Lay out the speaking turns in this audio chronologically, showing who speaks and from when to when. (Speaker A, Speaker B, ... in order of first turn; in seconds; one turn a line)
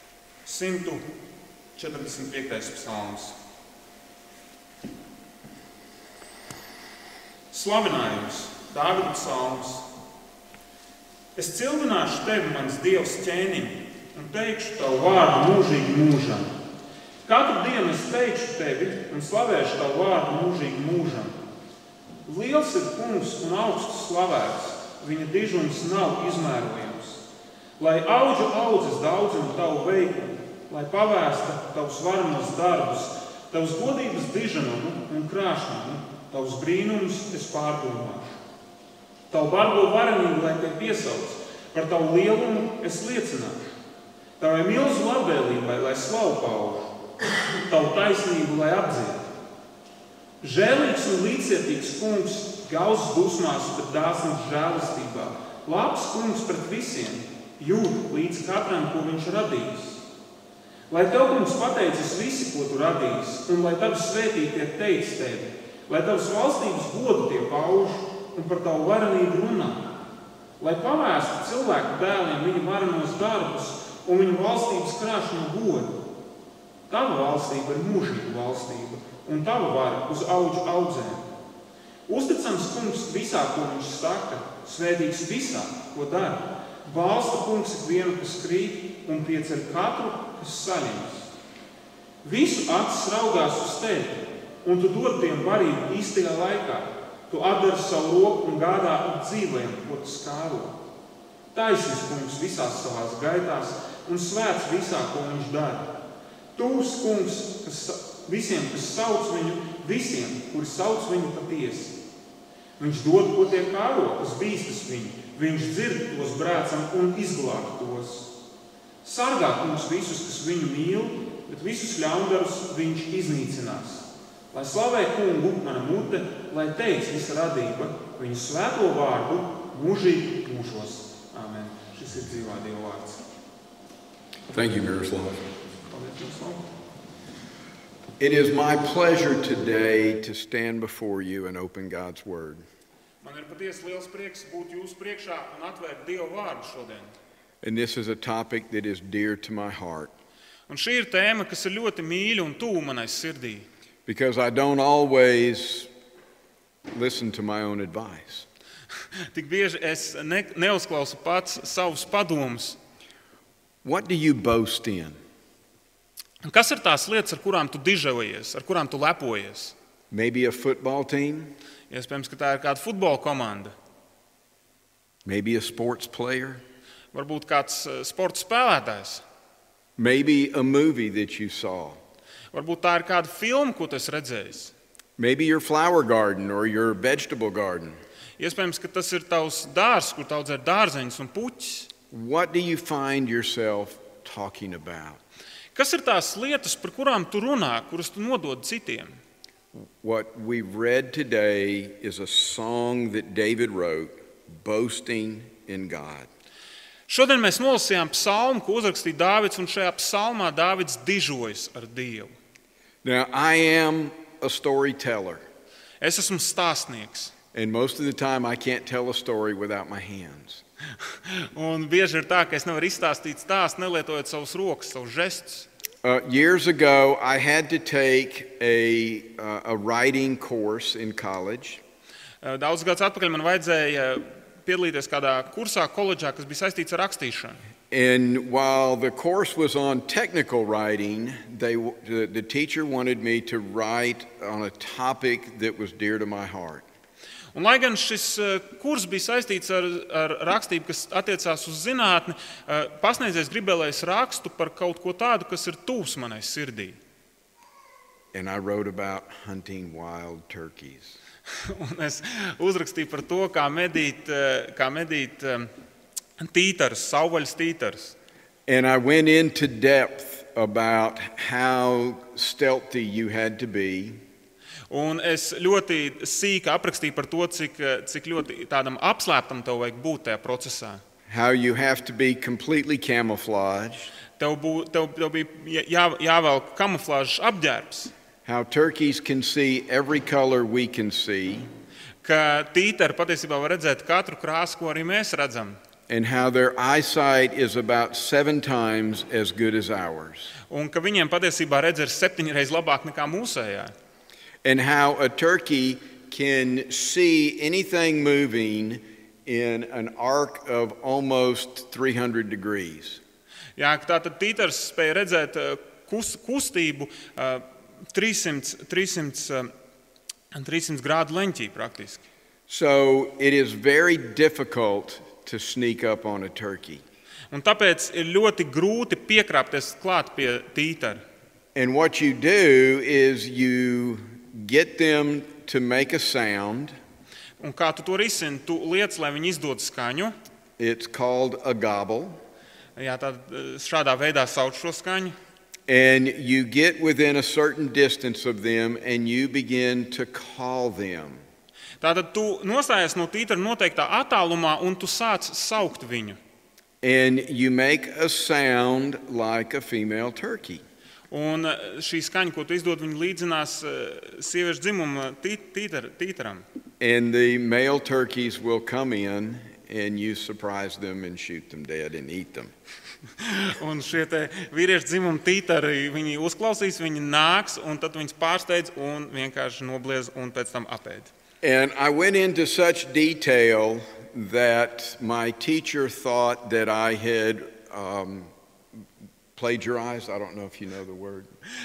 Speaker A: 0.5-1.1
Speaker A: 1.8-3.4
Speaker A: 7.5-9.9
Speaker A: 11.4-16.5
Speaker A: 17.3-21.4
Speaker A: 22.3-27.2
Speaker A: 27.8-38.4
Speaker A: 39.3-43.7
Speaker A: 44.4-49.3
Speaker A: 50.4-60.0
Speaker A: 60.9-69.9
Speaker A: 70.6-75.9
Speaker A: 76.9-81.3
Speaker A: 82.1-91.3
Speaker A: 92.2-100.8
Speaker A: 101.5-105.9
Speaker A: 106.6-112.0
Speaker A: 112.8-118.3
Speaker A: 119.0-133.2
Speaker B: 134.5-135.5
Speaker A: 135.9-136.6
Speaker B: 138.2-142.6
Speaker A: 143.2-147.1
Speaker B: 147.6-150.1
Speaker A: 150.7-153.7
Speaker B: 154.1-155.9
Speaker B: 156.9-158.5
Speaker A: 159.3-162.8
Speaker B: 163.8-165.2
Speaker A: 166.4-169.8
Speaker B: 170.1-171.5
Speaker A: 171.9-173.7
Speaker B: 175.2-176.6
Speaker A: 177.1-179.2
Speaker B: 180.0-182.0
Speaker A: 182.5-184.7
Speaker B: 185.2-188.0
Speaker A: 188.4-191.9
Speaker B: 192.1-195.2
Speaker A: 195.8-199.2
Speaker B: 199.7-206.3
Speaker A: 207.1-212.3
Speaker B: 213.0-215.4
Speaker A: 216.0-217.3
Speaker B: 217.5-220.6
Speaker A: 221.1-225.7
Speaker B: 226.0-231.8
Speaker A: 232.4-237.6
Speaker B: 237.9-246.9
Speaker A: 247.5-257.0
Speaker B: 258.3-261.2
Speaker A: 261.6-265.7
Speaker A: 266.4-268.2
Speaker B: 268.7-274.2
Speaker A: 274.9-281.0
Speaker B: 281.3-284.1
Speaker A: 284.4-288.1
Speaker B: 288.5-291.7
Speaker A: 292.2-295.8
Speaker B: 296.1-300.5
Speaker A: 300.7-303.9
Speaker B: 304.6-313.2
Speaker A: 313.8-319.7
Speaker A: 320.5-322.2
Speaker B: 322.7-327.0
Speaker A: 327.5-331.2
Speaker B: 331.8-336.9
Speaker A: 337.6-340.4
Speaker B: 340.8-342.4
Speaker A: 343.0-345.4
Speaker B: 345.9-351.4
Speaker A: 352.0-356.4
Speaker B: 357.0-360.8
Speaker A: 361.3-366.6
Speaker B: 367.0-372.7
Speaker A: 373.4-381.3
Speaker B: 381.6-388.5
Speaker B: 389.6-391.5